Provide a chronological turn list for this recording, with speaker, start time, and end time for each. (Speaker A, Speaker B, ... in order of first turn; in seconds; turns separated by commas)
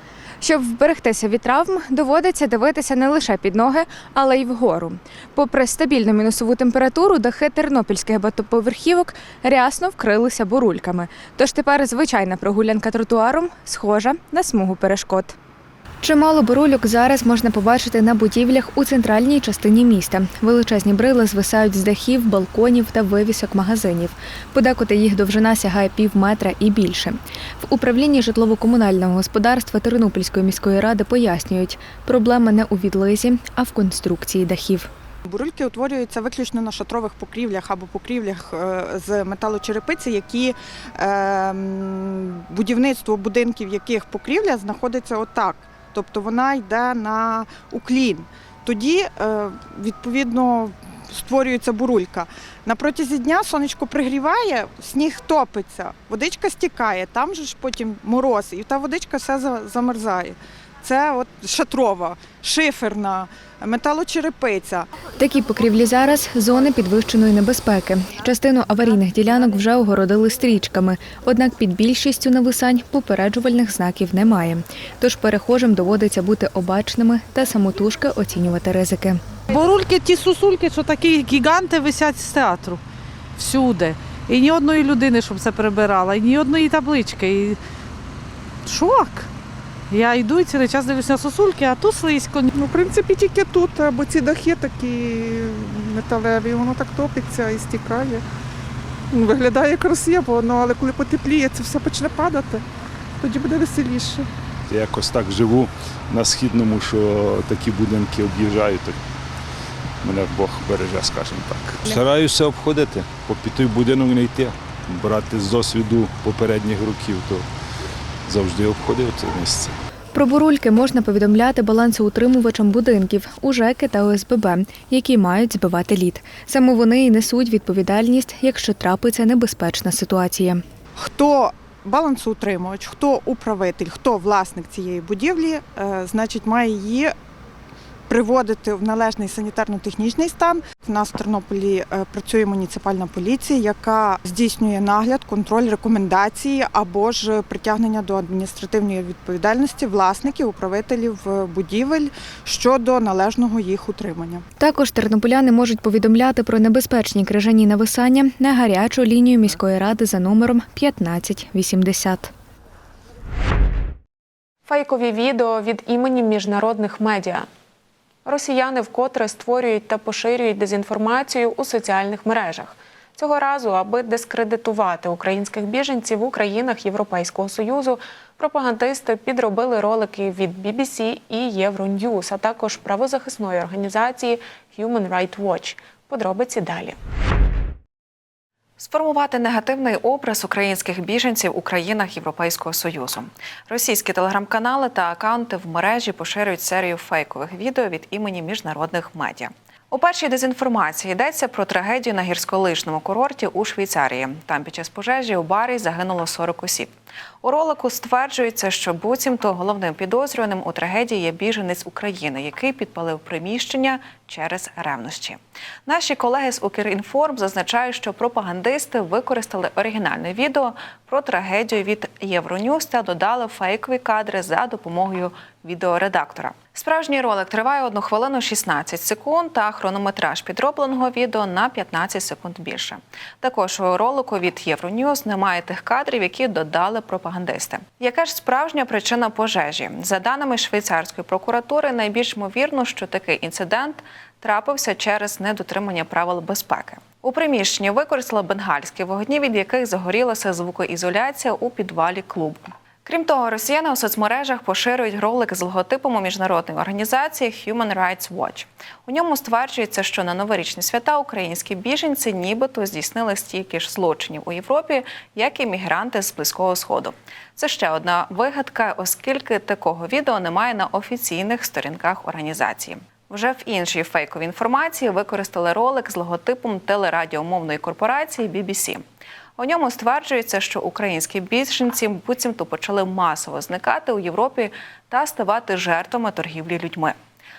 Speaker A: 0.4-15.4, Speaker A: 16.0-34.9, Speaker B: 35.3-64.9, Speaker A: 65.1-79.2, Speaker C: 79.5-82.8, Speaker C: 83.4-87.6, Speaker C: 88.7-89.3, Speaker C: 89.9-92.5, Speaker D: 92.5-98.2, Speaker D: 99.1-102.6, Speaker D: 103.2-104.3, Speaker E: 104.7-109.0, Speaker E: 110.0-117.5, Speaker E: 118.3-119.8, Speaker A: 120.1-130.6, Speaker B: 131.0-137.1, Speaker B: 138.1-154.4, Speaker A: 154.6-162.3, Speaker F: 164.7-167.5, Speaker F: 168.2-187.0, Speaker G: 188.8-279.0, Speaker G: 279.6-287.1